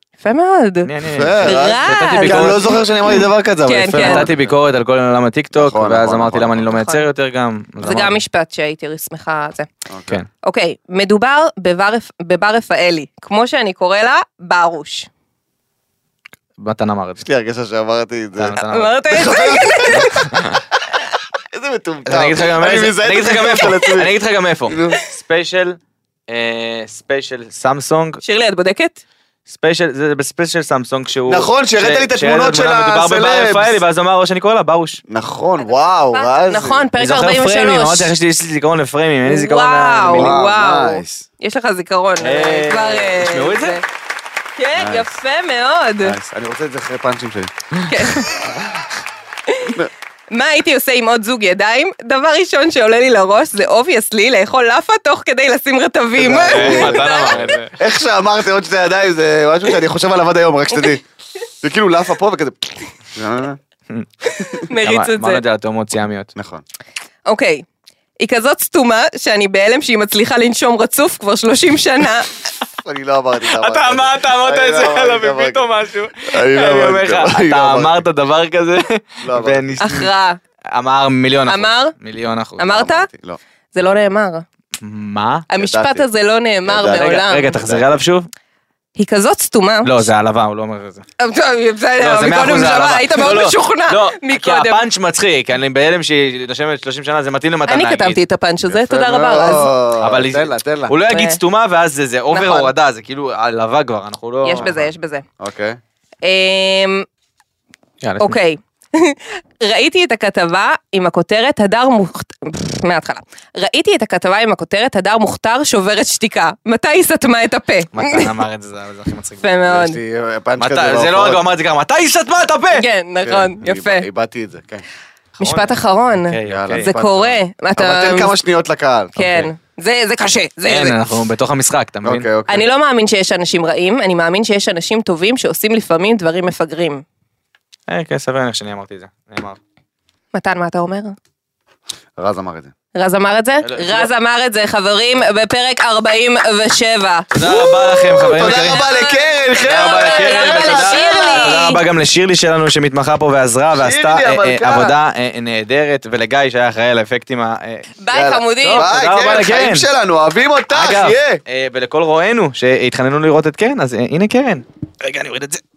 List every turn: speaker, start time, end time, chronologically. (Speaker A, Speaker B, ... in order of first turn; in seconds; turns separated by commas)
Speaker A: 0.2-0.9, Speaker B: 0.8-2.8, Speaker C: 1.1-4.5, Speaker A: 1.4-4.3, Speaker B: 3.9-8.2, Speaker C: 5.5-6.7, Speaker A: 6.7-7.0, Speaker A: 7.8-9.7, Speaker C: 9.9-10.2, Speaker A: 10.4-15.1, Speaker B: 16.6-17.2, Speaker C: 17.2-20.3, Speaker B: 18.4-19.0, Speaker A: 18.6-20.2, Speaker B: 19.9-20.6, Speaker C: 21.5-24.1, Speaker B: 22.1-25.8, Speaker C: 24.7-25.0, Speaker B: 26.3-28.2, Speaker A: 28.2-29.0, Speaker B: 29.5-35.0, Speaker C: 31.3-33.8, Speaker C: 35.1-36.9, Speaker A: 35.6-38.1, Speaker B: 37.0-40.4, Speaker A: 39.2-43.8, Speaker C: 40.1-41.3, Speaker B: 42.2-43.8, Speaker A: 44.5-46.1, Speaker C: 44.7-45.1, Speaker C: 46.0-47.5, Speaker B: 47.7-48.5, Speaker A: 47.9-48.4, Speaker A: 49.5-57.5, Speaker C: 56.1-61.0, Speaker B: 56.3-57.7, Speaker C: 61.6-63.6, Speaker A: 64.3-65.4, Speaker B: 64.8-66.3, Speaker C: 66.3-66.6, Speaker A: 67.3-67.6, Speaker A: 68.2-72.3, Speaker C: 72.8-75.7, Speaker B: 73.5-80.1, Speaker C: 76.2-78.0, Speaker C: 79.2-79.8, Speaker A: 79.8-80.4, Speaker B: 80.7-82.8, Speaker A: 81.5-81.9, Speaker A: 82.6-83.1, Speaker C: 82.7-83.4, Speaker A: 83.7-84.4, Speaker B: 84.8-85.5, Speaker A: 85.5-87.5, Speaker C: 85.5-86.0, Speaker C: 86.7-87.8, Speaker B: 86.9-88.3, Speaker A: 89.0-89.9, Speaker B: 89.8-91.0, Speaker A: 91.2-94.8, Speaker B: 92.0-98.2, Speaker A: 97.7-99.7, Speaker C: 98.7-100.9, Speaker B: 100.0-104.7, Speaker A: 101.0-101.4, Speaker A: 102.3-102.7, Speaker A: 104.4-105.2, Speaker C: 104.5-105.8, Speaker A: 106.2-107.0, Speaker B: 108.0-108.3, Speaker A: 108.2-118.3, Speaker B: 117.9-119.6, Speaker A: 119.4-120.0, Speaker C: 119.7-121.4, Speaker B: 120.6-122.8, Speaker A: 122.7-124.0, Speaker C: 123.2-124.8, Speaker B: 125.4-127.1, Speaker A: 125.4-128.3, Speaker C: 126.5-129.2, Speaker B: 129.2-129.5, Speaker A: 129.2-131.0, Speaker B: 130.7-132.3, Speaker C: 132.0-132.7, Speaker A: 132.5-137.0, Speaker B: 137.9-139.6, Speaker A: 140.3-141.2, Speaker C: 142.2-142.7, Speaker A: 142.9-151.8, Speaker B: 143.6-144.1, Speaker B: 147.3-148.8, Speaker C: 147.4-151.8, Speaker B: 149.6-157.9, Speaker C: 153.7-154.9, Speaker A: 158.0-158.9, Speaker C: 158.1-161.4, Speaker B: 158.6-159.9, Speaker B: 160.7-165.6